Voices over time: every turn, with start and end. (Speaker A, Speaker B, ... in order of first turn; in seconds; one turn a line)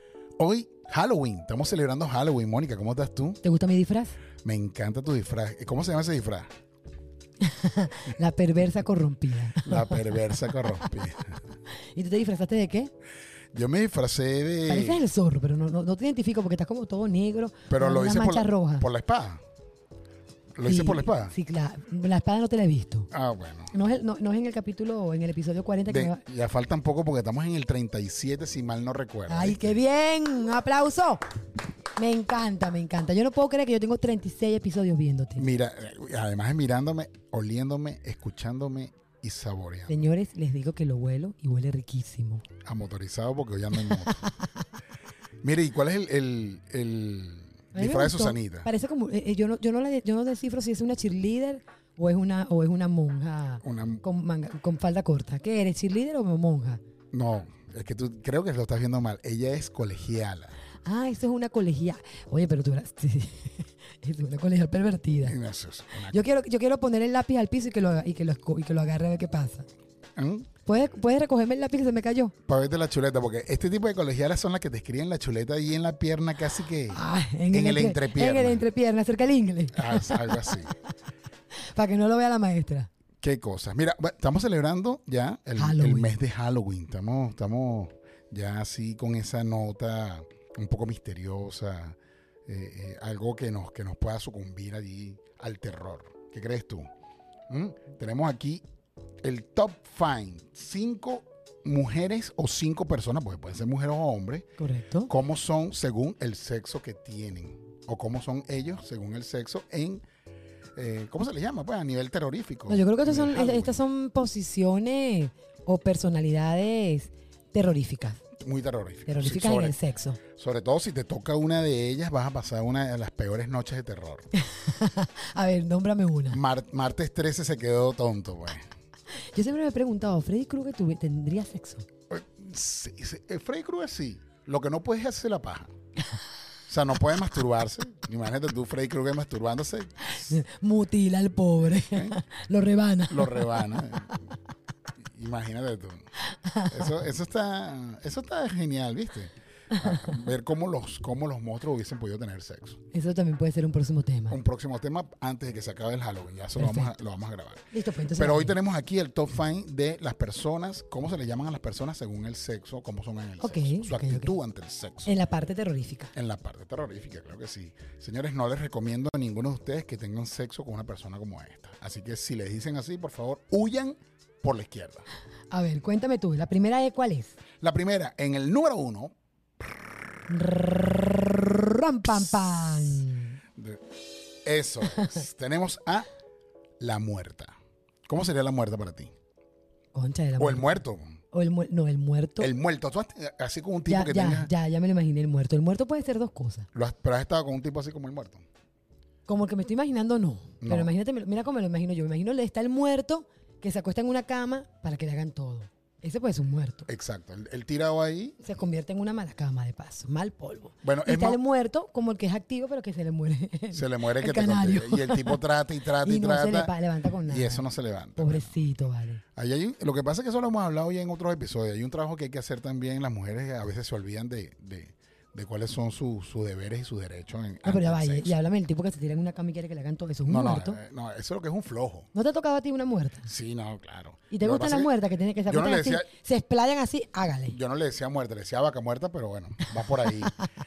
Speaker A: 0.4-3.4
Speaker B: 3.4-4.2
Speaker A: 4.4-6.5
Speaker B: 7.4-10.2
Speaker A: 9.6-11.4
Speaker B: 11.9-12.9
Speaker A: 13.5-15.0
Speaker B: 14.7-18.9
Speaker A: 17.7-19.4
Speaker A: 20.6-21.3
Speaker B: 20.6-23.1
Speaker A: 23.1-23.7
Speaker B: 23.7-26.2
Speaker A: 25.9-29.8
Speaker B: 29.3-31.2
Speaker B: 32.0-35.5
Speaker A: 35.4-40.1
Speaker B: 39.9-42.4
Speaker A: 42.6-44.2
Speaker A: 45.4-48.7
Speaker B: 47.7-56.8
Speaker A: 53.6-54.0
Speaker A: 57.1-60.5
Speaker B: 60.9-65.4
Speaker A: 65.2-66.2
Speaker B: 66.1-69.7
Speaker A: 70.2-70.5
Speaker B: 70.7-72.3
Speaker A: 72.5-78.7
Speaker B: 76.9-80.6
Speaker A: 79.7-80.7
Speaker B: 81.6-82.9
Speaker A: 83.2-96.9
Speaker B: 85.6-86.2
Speaker A: 97.5-98.6
Speaker A: 99.2-104.5
Speaker B: 104.6-105.1
Speaker A: 105.1-110.0
Speaker A: 110.8-113.8
Speaker B: 112.7-118.2
Speaker A: 118.4-119.8
Speaker B: 119.1-120.2
Speaker A: 120.4-124.3
Speaker B: 124.4-126.4
Speaker A: 126.3-128.7
Speaker B: 129.3-131.9
Speaker A: 132.1-135.7
Speaker A: 136.7-140.4
Speaker B: 140.2-143.5
Speaker A: 141.9-142.2
Speaker A: 143.1-144.3
Speaker A: 145.1-146.1
Speaker B: 146.5-146.9
Speaker A: 146.7-152.8
Speaker B: 152.9-154.4
Speaker A: 154.3-165.1
Speaker B: 156.6-156.9
Speaker B: 157.7-158.6
Speaker B: 163.4-164.3
Speaker B: 165.1-166.1
Speaker A: 166.2-175.1
Speaker B: 175.5-177.4
Speaker A: 177.6-179.1
Speaker B: 180.3-183.4
Speaker A: 182.1-183.1
Speaker A: 183.6-183.8
Speaker A: 184.4-186.1
Speaker A: 186.8-187.6
Speaker A: 188.1-189.1
Speaker B: 189.9-192.5
Speaker A: 190.4-191.1
Speaker A: 192.4-194.5
Speaker B: 193.9-196.7
Speaker A: 196.7-198.4
Speaker B: 199.3-206.9
Speaker A: 200.6-200.9
Speaker A: 206.9-208.5
Speaker B: 208.4-215.4
Speaker A: 210.8-211.4
Speaker A: 213.7-216.7
Speaker B: 216.0-219.2
Speaker A: 217.3-218.6
Speaker A: 219.4-228.3
Speaker B: 227.7-230.8
Speaker A: 230.3-232.1
Speaker B: 232.1-233.3
Speaker A: 233.3-234.9
Speaker B: 234.3-237.6
Speaker A: 235.5-236.1
Speaker A: 237.5-240.3